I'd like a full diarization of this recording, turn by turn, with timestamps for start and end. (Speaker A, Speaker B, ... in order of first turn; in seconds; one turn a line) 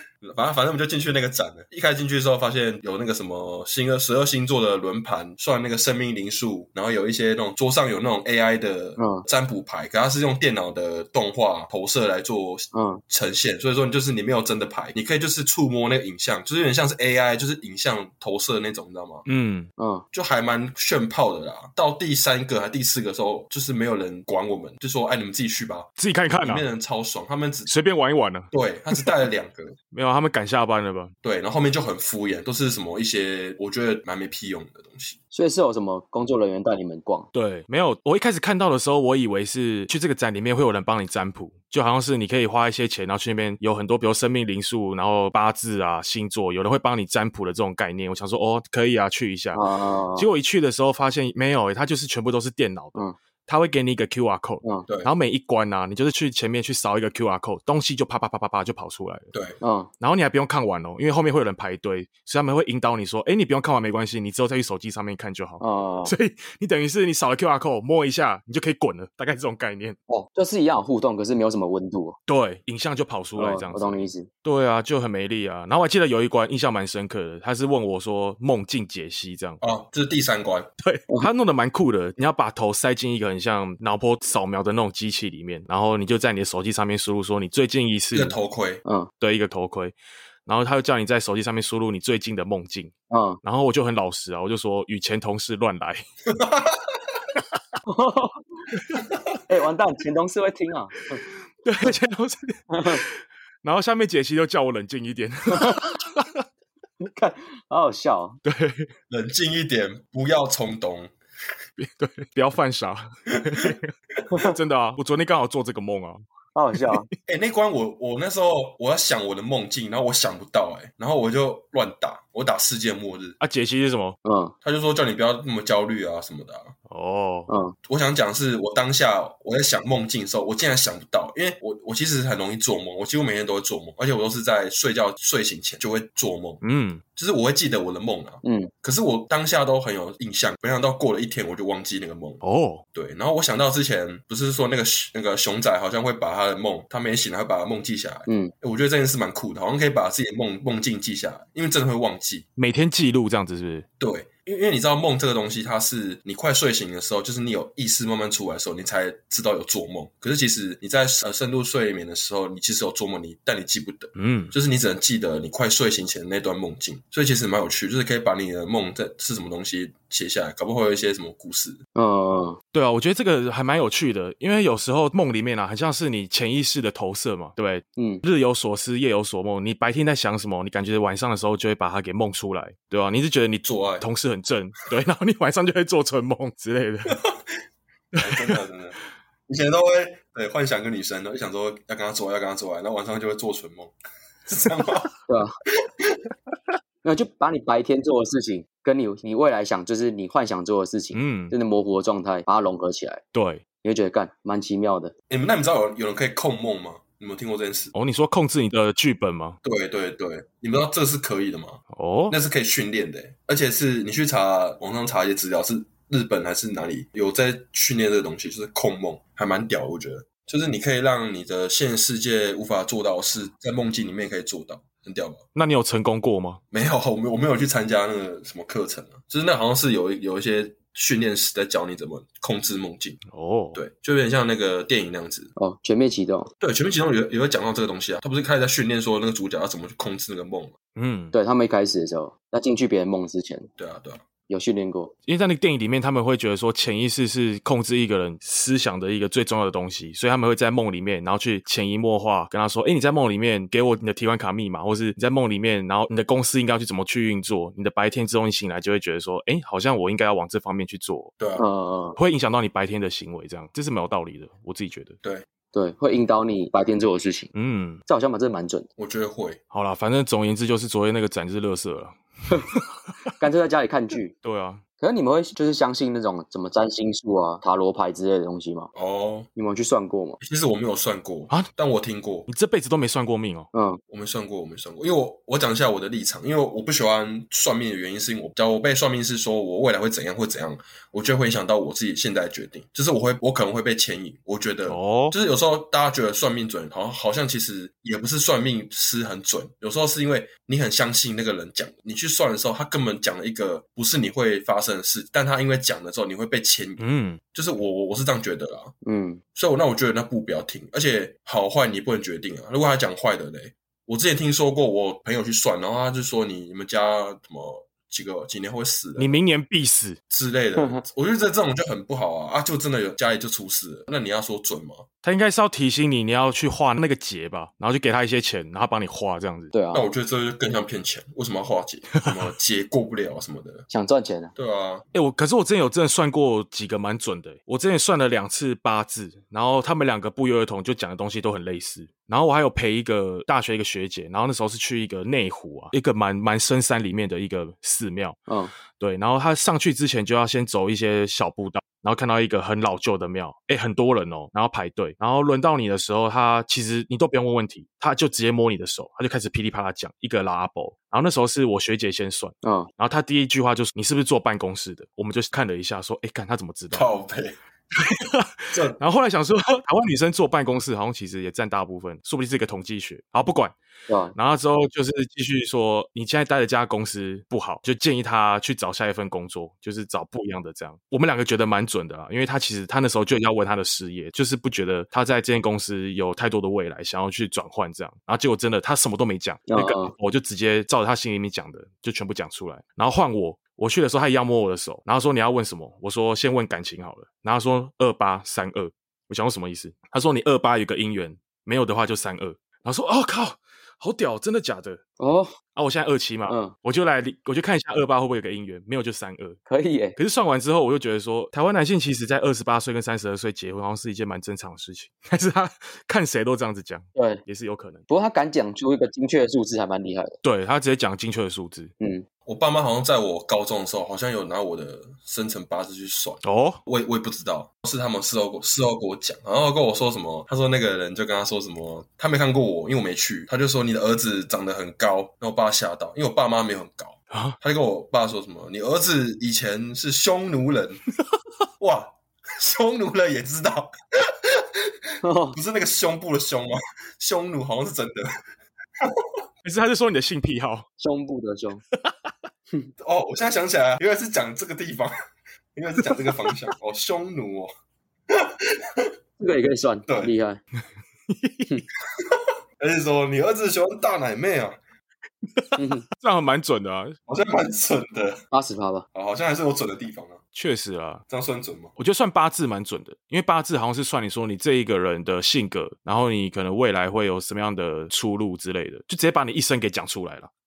Speaker A: 0.2-19.2
Speaker B: 9.0-9.2
Speaker B: 12.7-13.0
Speaker C: 19.3-19.7
Speaker B: 19.8-20.1
Speaker A: 20.1-27.7
Speaker C: 26.0-26.7
Speaker C: 27.7-29.1
Speaker A: 28.5-29.7
Speaker C: 29.9-31.1
Speaker A: 31.2-35.2
Speaker B: 35.3-37.3
Speaker C: 37.3-49.6
Speaker B: 49.5-50.3
Speaker C: 50.2-59.3
Speaker B: 59.6-59.9
Speaker C: 60.0-70.0
Speaker B: 65.6-66.1
Speaker B: 70.1-72.2
Speaker C: 72.3-79.6
Speaker B: 73.3-74.3
Speaker A: 79.6-80.7
Speaker C: 80.8-88.3
Speaker A: 88.1-88.8
Speaker C: 89.2-89.9
Speaker C: 90.5-96.0
Speaker B: 93.1-93.4
Speaker A: 96.3-97.0
Speaker B: 97.9-98.4
Speaker B: 99.5-101.2
Speaker C: 101.6-106.4
Speaker B: 102.7-103.0
Speaker B: 105.5-105.8
Speaker B: 107.0-108.4
Speaker C: 108.5-108.9
Speaker A: 109.1-111.1
Speaker C: 111.8-116.2
Speaker A: 113.3-113.7
Speaker B: 116.5-117.1
Speaker C: 116.7-117.0
Speaker A: 117.3-123.4
Speaker C: 123.4-124.2
Speaker B: 124.2-124.5
Speaker A: 124.6-126.7
Speaker C: 126.9-127.5
Speaker B: 127.5-127.7
Speaker A: 127.8-136.6
Speaker C: 136.6-137.0
Speaker A: 137.2-142.4
Speaker B: 138.4-138.7
Speaker C: 142.4-142.8
Speaker A: 142.9-152.4
Speaker C: 152.6-153.8
Speaker A: 154.0-171.8
Speaker C: 164.2-164.5
Speaker B: 171.9-172.6
Speaker C: 172.7-187.2
Speaker B: 178.0-178.2
Speaker A: 183.6-184.1
Speaker A: 187.1-187.4
Speaker A: 188.2-188.9
Speaker C: 188.2-188.6
Speaker A: 189.5-193.9
Speaker A: 194.5-195.1
Speaker B: 197.0-203.2
Speaker C: 201.1-201.6
Speaker C: 203.3-203.6
Speaker B: 203.8-205.1
Speaker A: 205.3-207.9
Speaker C: 207.9-209.6
Speaker A: 209.6-225.4
Speaker C: 211.9-212.4
Speaker C: 225.6-226.6
Speaker A: 226.7-233.2
Speaker C: 233.3-233.8
Speaker A: 233.7-235.5
Speaker B: 235.6-236.5
Speaker A: 236.6-240.7
Speaker C: 240.9-241.3
Speaker B: 241.3-243.7
Speaker A: 243.8-244.2
Speaker B: 244.5-245.1
Speaker C: 245.3-261.3
Speaker A: 261.4-261.6
Speaker B: 261.6-262.2
Speaker C: 262.2-265.2
Speaker B: 265.7-267.5
Speaker C: 267.5-268.0
Speaker B: 268.1-268.9
Speaker A: 269.0-269.6
Speaker C: 269.7-272.2
Speaker B: 273.4-274.3
Speaker C: 274.4-274.8
Speaker B: 275.0-278.9
Speaker A: 278.9-279.5
Speaker B: 279.6-280.4
Speaker A: 280.4-282.5
Speaker C: 282.5-283.7
Speaker B: 283.7-284.0
Speaker A: 284.1-307.0
Speaker C: 294.9-295.4
Speaker C: 307.0-307.4
Speaker A: 307.5-308.9
Speaker B: 309.0-309.4
Speaker A: 309.6-319.4
Speaker C: 319.2-320.2
Speaker A: 320.3-325.1
Speaker B: 320.8-321.0
Speaker C: 325.2-329.7
Speaker B: 329.7-330.1
Speaker A: 329.9-333.9
Speaker B: 333.9-334.5
Speaker A: 334.6-335.1
Speaker C: 335.1-348.4
Speaker B: 348.5-348.7
Speaker C: 348.9-367.1
Speaker B: 362.6-362.9
Speaker A: 366.9-367.6
Speaker C: 368.0-373.7
Speaker A: 368.7-369.0
Speaker B: 374.1-374.3
Speaker C: 374.4-405.0
Speaker B: 389.7-390.1
Speaker B: 405.2-405.5
Speaker C: 405.7-409.6
Speaker B: 406.5-406.7
Speaker B: 409.7-410.2
Speaker C: 410.2-418.0
Speaker B: 417.2-417.4
Speaker B: 418.1-420.4
Speaker C: 420.4-421.9
Speaker B: 422.0-422.2
Speaker A: 422.4-441.0
Speaker C: 426.4-426.8
Speaker C: 437.3-437.6
Speaker A: 441.8-444.9
Speaker B: 445.2-445.6
Speaker A: 445.6-448.2
Speaker A: 449.0-449.3
Speaker C: 449.6-450.9
Speaker B: 451.0-451.8
Speaker A: 453.0-455.1
Speaker A: 455.7-457.7
Speaker A: 458.3-459.1
Speaker B: 459.4-460.6
Speaker C: 461.3-461.7
Speaker A: 462.2-464.8
Speaker C: 465.6-467.2
Speaker B: 465.8-466.1
Speaker A: 467.3-468.4
Speaker B: 468.5-469.1
Speaker A: 469.1-470.4
Speaker C: 470.6-471.2
Speaker A: 471.3-471.9
Speaker C: 472.0-480.5